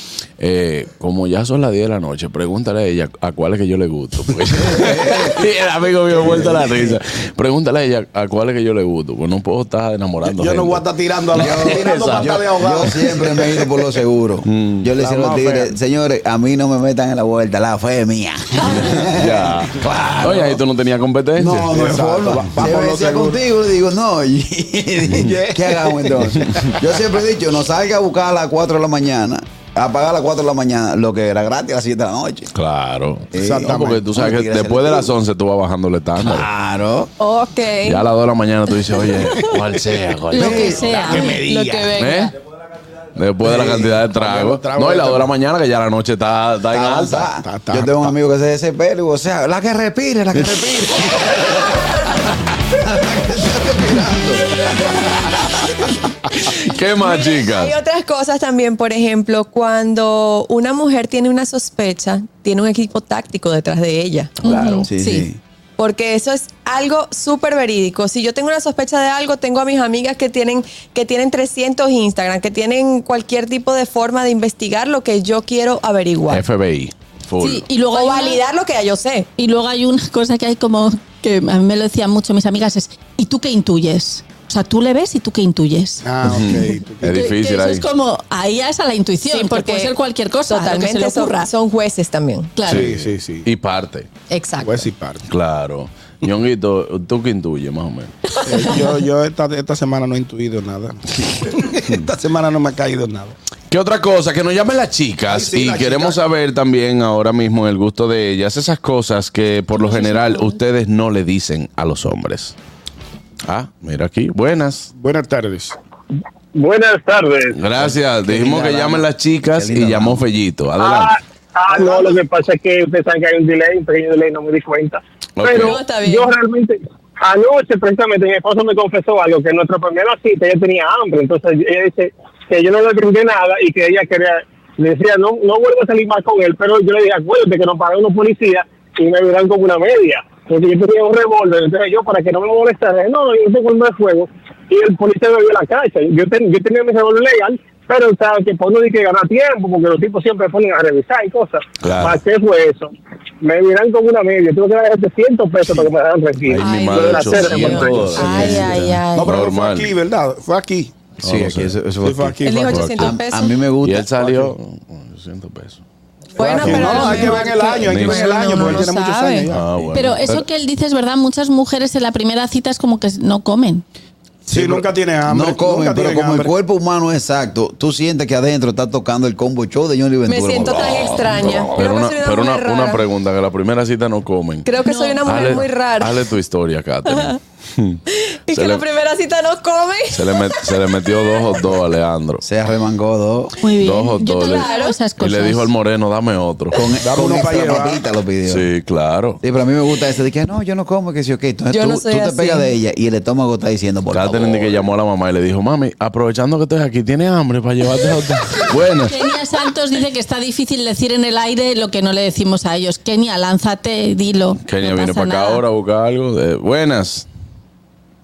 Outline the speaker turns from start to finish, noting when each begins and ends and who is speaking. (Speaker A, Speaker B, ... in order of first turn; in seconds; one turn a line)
Speaker A: 0.4-12.3
Speaker B: 4.5-5.5
Speaker B: 6.2-7.0
Speaker C: 10.2-13.6
Speaker B: 11.3-20.6
Speaker A: 14.5-14.9
Speaker C: 15.0-15.7
Speaker A: 18.8-21.7
Speaker B: 21.4-32.5
Speaker C: 21.6-23.4
Speaker C: 25.2-26.7
Speaker A: 32.5-36.5
Speaker B: 33.3-35.2
Speaker C: 33.4-33.9
Speaker B: 36.2-37.1
Speaker D: 37.2-38.0
Speaker A: 37.8-40.9
Speaker B: 40.3-41.3
Speaker E: 40.3-41.4
Speaker D: 40.3-42.3
Speaker C: 41.0-41.9
Speaker A: 42.0-42.3
Speaker A: 43.1-47.3
Speaker C: 43.5-45.3
Speaker B: 46.7-56.0
Speaker C: 47.4-48.1
Speaker D: 56.5-64.3
Speaker A: 56.6-57.8
Speaker E: 64.4-65.3
Speaker B: 64.4-65.4
Speaker D: 65.8-76.4
Speaker A: 76.3-77.7
Speaker E: 77.4-78.4
Speaker D: 77.9-79.3
Speaker E: 79.4-86.0
Speaker C: 86.0-87.2
Speaker A: 86.2-87.8
Speaker E: 87.0-91.5
Speaker D: 89.2-89.9
Speaker D: 90.5-92.5
Speaker E: 92.6-92.8
Speaker A: 92.7-94.1
Speaker C: 92.7-93.5
Speaker D: 94.3-94.9
Speaker C: 94.6-95.2
Speaker A: 95.3-98.2
Speaker E: 98.3-98.9
Speaker C: 98.5-103.4
Speaker A: 103.7-112.6
Speaker C: 105.3-106.2
Speaker E: 109.9-110.5
Speaker A: 113.5-114.9
Speaker C: 115.0-115.8
Speaker F: 116.5-117.6
Speaker A: 117.5-121.2
Speaker B: 117.8-120.2
Speaker F: 120.8-158.1
Speaker C: 121.7-122.2
Speaker A: 125.4-125.8
Speaker D: 125.5-126.3
Speaker A: 151.8-152.2
Speaker A: 156.5-159.9
Speaker D: 156.6-159.4
Speaker C: 158.0-160.9
Speaker A: 161.2-161.8
Speaker B: 161.2-162.4
Speaker C: 162.0-162.9
Speaker D: 162.4-163.6
Speaker A: 162.7-163.2
Speaker B: 163.0-164.2
Speaker A: 163.8-165.8
Speaker D: 166.4-169.5
Speaker C: 166.4-169.9
Speaker A: 166.6-167.3
Speaker A: 167.9-168.8
Speaker A: 169.5-170.4
Speaker E: 169.9-173.8
Speaker C: 174.5-176.5
Speaker B: 174.5-181.7
Speaker D: 180.3-183.0
Speaker A: 181.4-184.7
Speaker D: 184.7-186.2
Speaker E: 184.8-185.6
Speaker A: 185.2-188.0
Speaker D: 187.1-187.3
Speaker D: 188.1-190.6
Speaker A: 188.5-188.8
Speaker A: 190.1-192.4
Speaker B: 192.4-193.5
Speaker E: 193.6-195.7
Speaker A: 193.8-196.8
Speaker D: 194.2-195.0
Speaker B: 196.7-198.7
Speaker C: 197.0-198.0
Speaker A: 198.5-199.4
Speaker B: 199.4-204.8
Speaker D: 201.7-202.7
Speaker A: 204.1-209.2
Speaker E: 209.1-215.6
Speaker A: 214.6-217.3